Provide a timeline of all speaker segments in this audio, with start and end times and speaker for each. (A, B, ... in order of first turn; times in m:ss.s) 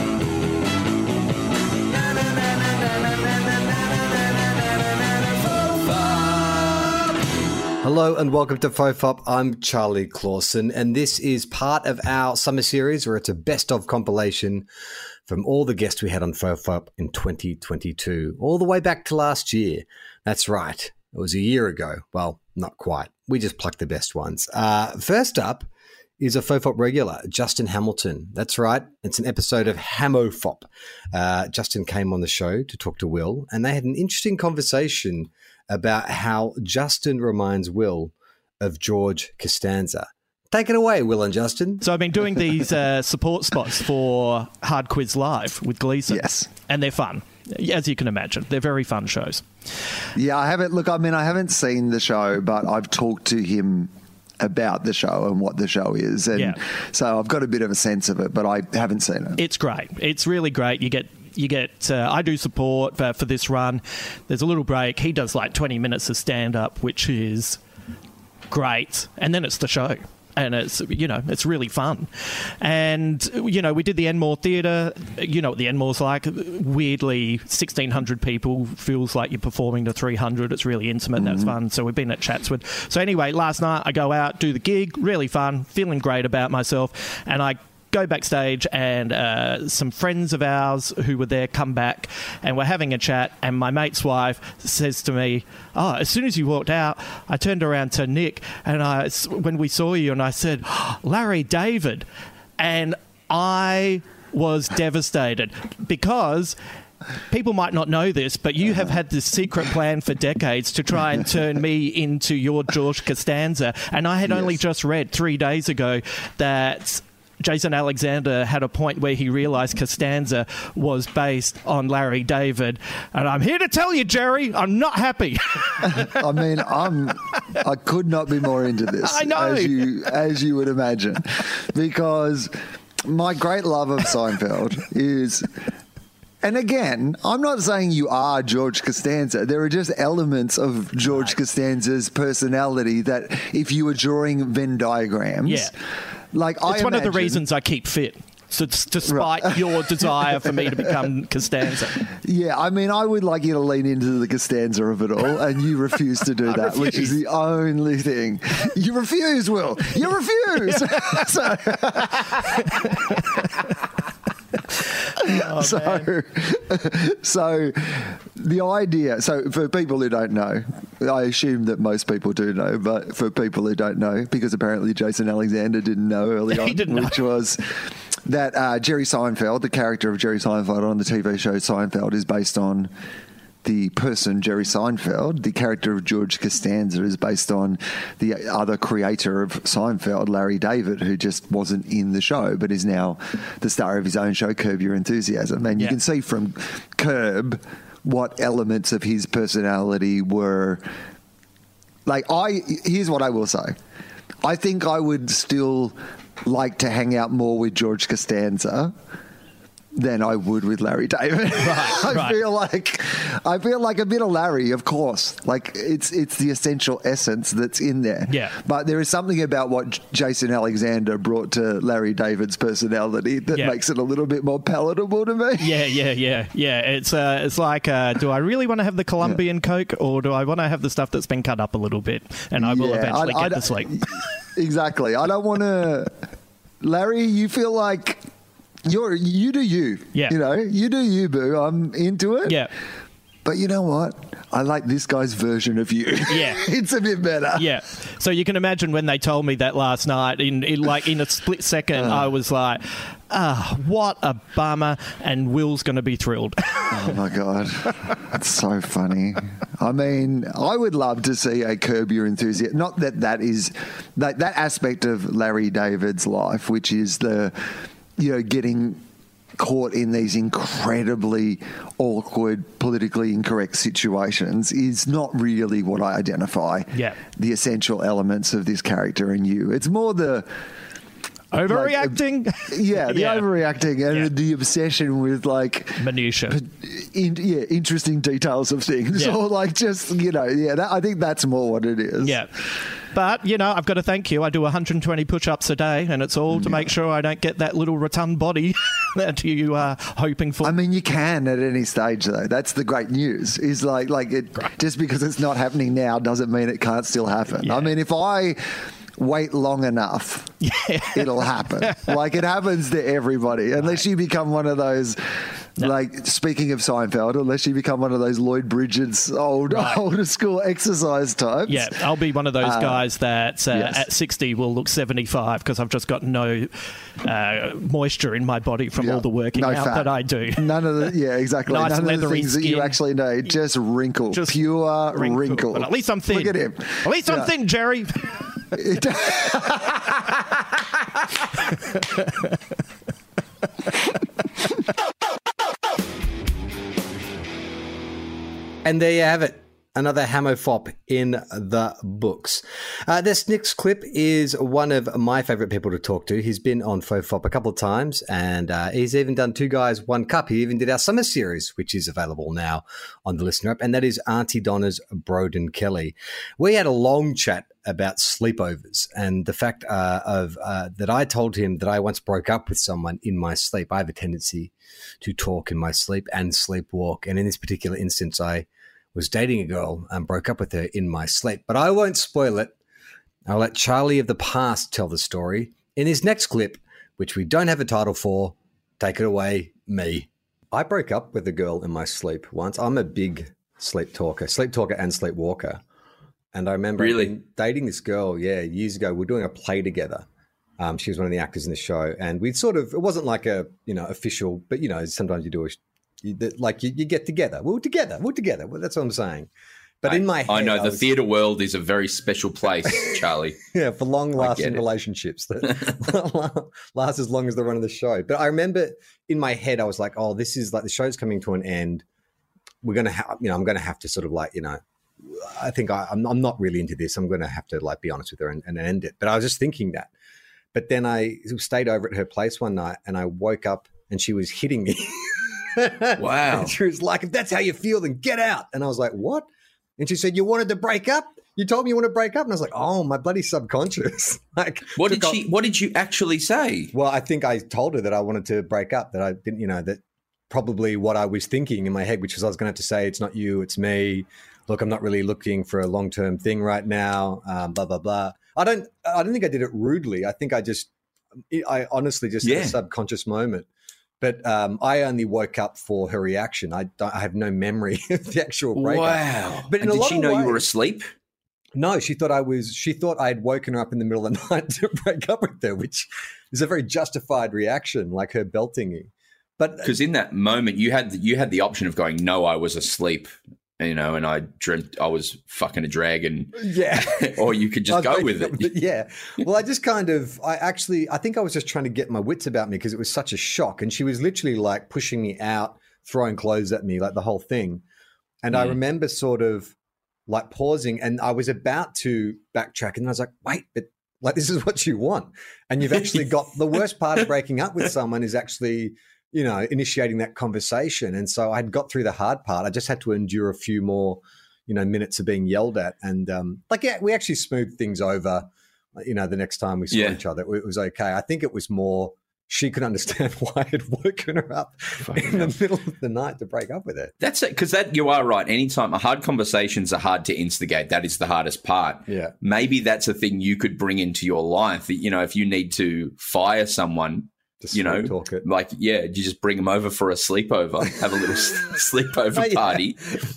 0:07.8-0:14.6 A
0:15.3-0:25.7 A
0:26.2-0:41.8 A
0:41.8-0:49.5 B
0:46.1-0:46.5 C
0:50.1-0:59.4 C
0:59.4-1:07.6 B
1:08.5-1:42.0 B
1:21.2-1:21.5 C
1:42.6-1:46.6 B
1:47.3-2:06.3 B
1:54.2-1:54.6 C
2:05.8-2:12.5 C
2:09.0-2:09.9 B
2:13.0-2:15.5 C
2:16.4-2:25.7 C
2:25.4-2:25.7 B
2:26.3-2:27.4 C
2:26.6-2:32.1 B
2:29.0-2:31.1 C
2:32.1-2:43.6 C
2:36.5-2:37.2 B
2:40.7-2:41.2 B
2:45.2-2:46.1 B
2:45.2-3:02.9 C
2:56.5-2:57.2 B
3:03.6-3:20.8 C
3:22.0-3:23.8 C
3:24.4-3:29.0 C
3:29.9-3:45.9 C
3:31.6-3:32.4 B
3:38.3-3:38.5 B
3:45.6-3:54.2 B
3:52.6-3:56.1 C
3:56.8-3:58.2 C
3:58.8-4:02.7 C
4:02.4-4:02.7 B
4:03.4-4:07.7 C
4:06.3-4:06.6 B
4:07.6-4:17.2 B
4:11.9-4:12.3 C
4:16.9-4:29.0 C
4:29.6-4:40.5 C
4:36.9-4:37.2 B
4:41.5-4:43.4 B
4:41.7-4:52.4 C
4:46.0-4:46.6 B
4:52.2-4:52.5 B
4:53.1-5:00.8 B
4:56.5-4:56.9 C
5:00.6-5:10.5 C
5:07.6-5:07.9 B
5:10.6-5:12.2 B
5:11.1-5:22.0 C
5:19.7-5:20.0 B
5:21.7-5:26.7 B
5:22.6-5:23.0 C
5:23.7-5:24.0 C
5:27.2-5:31.1 B
5:29.0-5:37.5 C
5:31.7-5:33.0 B
5:34.3-5:34.6 B
5:35.1-5:38.7 B
5:38.7-5:40.3 C
5:41.9-5:42.4 B
5:48.8-6:22.7 A
6:23.5-6:35.8 A
6:36.5-6:40.2 A
6:37.0-6:37.3 D
6:40.8-6:49.5 A
6:50.0-6:51.1 A
6:50.0-6:53.6 D
6:52.9-6:53.1 A
6:53.7-7:02.0 A
6:54.4-6:54.8 D
7:02.8-7:10.1 A
7:10.7-7:19.5 A
7:16.2-7:16.7 D
7:20.0-7:25.4 A
7:25.0-7:26.9 D
7:26.9-7:40.9 A
7:41.5-7:43.7 A
7:42.4-7:42.8 D
7:44.2-7:50.6 A
7:48.8-7:51.0 D
7:51.8-7:59.9 A
7:59.8-8:08.7 D
8:06.6-8:17.8 A
8:18.4-8:19.7 A
8:20.3-8:47.1 A
8:39.9-8:40.2 D
8:45.1-8:45.5 D
8:47.2-9:03.0 D
8:52.1-8:52.3 A
8:57.6-8:58.4 A
9:02.4-9:02.8 A